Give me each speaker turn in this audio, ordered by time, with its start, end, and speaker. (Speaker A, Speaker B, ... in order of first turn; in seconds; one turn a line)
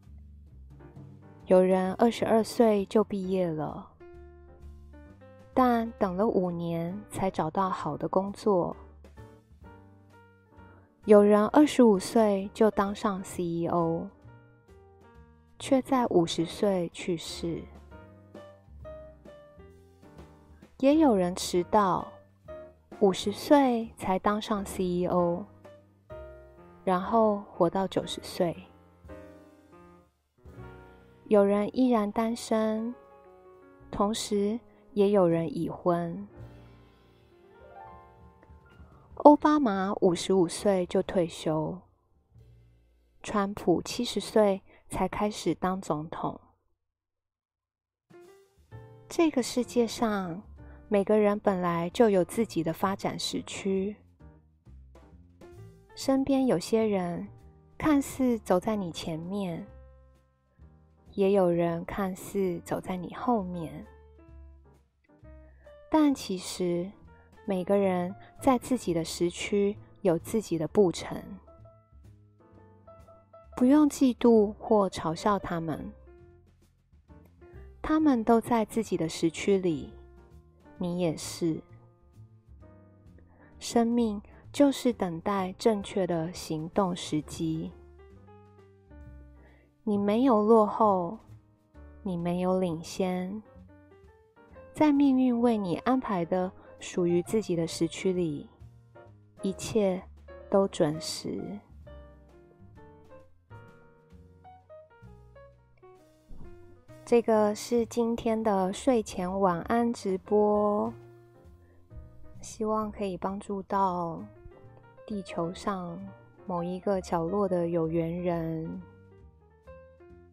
Speaker A: 1.5-3.9
Speaker A: 5.5-8.8
Speaker A: 11.0-14.1
Speaker A: 15.6-17.7
Speaker A: 20.8-22.2
Speaker A: 23.0-25.5
Speaker A: 26.8-28.7
Speaker A: 31.3-33.0
Speaker A: 33.9-36.3
Speaker A: 39.2-41.8
Speaker A: 43.2-46.4
Speaker A: 49.1-54.0
Speaker A: 55.9-59.7
Speaker A: 61.1-63.9
Speaker A: 65.9-66.9
Speaker A: 67.4-71.4
Speaker A: 73.5-75.9
Speaker A: 77.8-79.9
Speaker A: 80.8-81.6
Speaker A: 83.6-87.7
Speaker A: 89.8-91.2
Speaker A: 92.0-93.4
Speaker A: 94.7-98.5
Speaker A: 99.4-101.6
Speaker A: 107.0-111.0
Speaker A: 112.4-114.3
Speaker A: 115.0-118.8